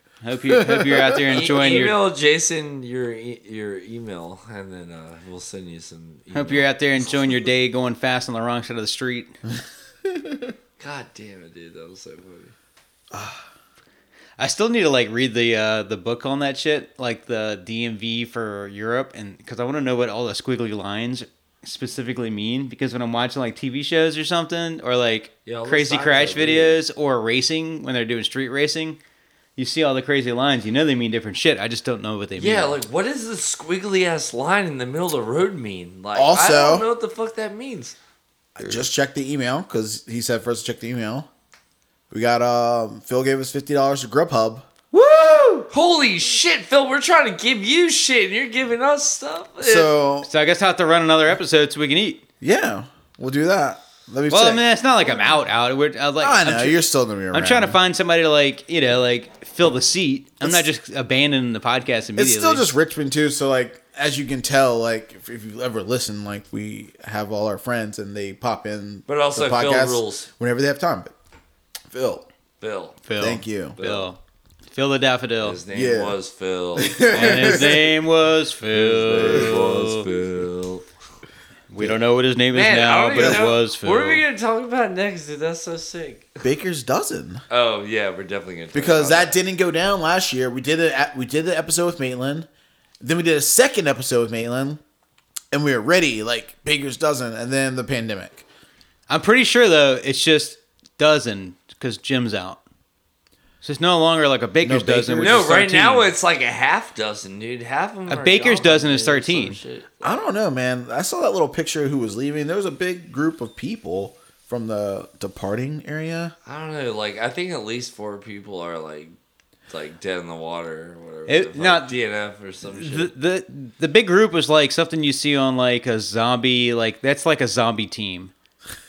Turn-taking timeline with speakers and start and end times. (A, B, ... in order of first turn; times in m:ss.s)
0:00.2-0:02.0 A
0:00.4-0:01.6 B
0:01.3-0:06.7 C
0:06.3-0:09.3 A
0:10.1-0:10.5 B
0:10.8-0:12.5 C
0:13.1-0:13.4 B
0:14.4-0:29.0 A
0:25.4-0:26.8 C
0:29.6-0:32.8 A
0:32.4-0:37.9 C
0:36.1-0:36.9 B
0:38.6-0:41.3 B
0:42.1-0:44.7 B
0:44.9-0:45.6 A
0:45.7-0:49.9 C
0:49.6-0:50.3 B
0:50.2-0:52.2 A
0:52.4-0:54.6 B
0:54.3-0:56.8 A
0:56.2-0:57.8 B
0:57.3-1:02.7 A
1:02.2-1:11.1 B
1:09.1-1:10.3 C
1:11.9-1:12.2 B
1:12.6-1:13.0 C
1:13.0-1:14.2 A
1:13.2-1:13.8 B
1:13.8-1:14.1 C
1:14.7-1:15.6 A
1:15.4-1:17.7 C
1:15.7-1:16.2 B
1:16.8-1:17.8 B
1:17.1-1:20.0 A
1:18.7-1:20.8 C
1:21.7-1:24.2 A
1:22.5-1:26.4 C
1:23.2-1:23.4 B
1:26.4-1:27.4 B
1:27.5-1:29.4 C
1:28.7-1:32.5 B
1:33.0-1:34.8 B
1:35.5-1:38.4 B
1:39.1-1:42.6 A
1:43.6-1:46.1 A
1:44.6-1:45.6 B
1:45.2-1:50.2 C
1:48.1-1:49.6 A
1:50.0-1:56.3 B
1:56.4-1:59.1 C
1:59.7-2:03.1 C
2:01.3-2:01.9 A
2:02.7-2:08.3 A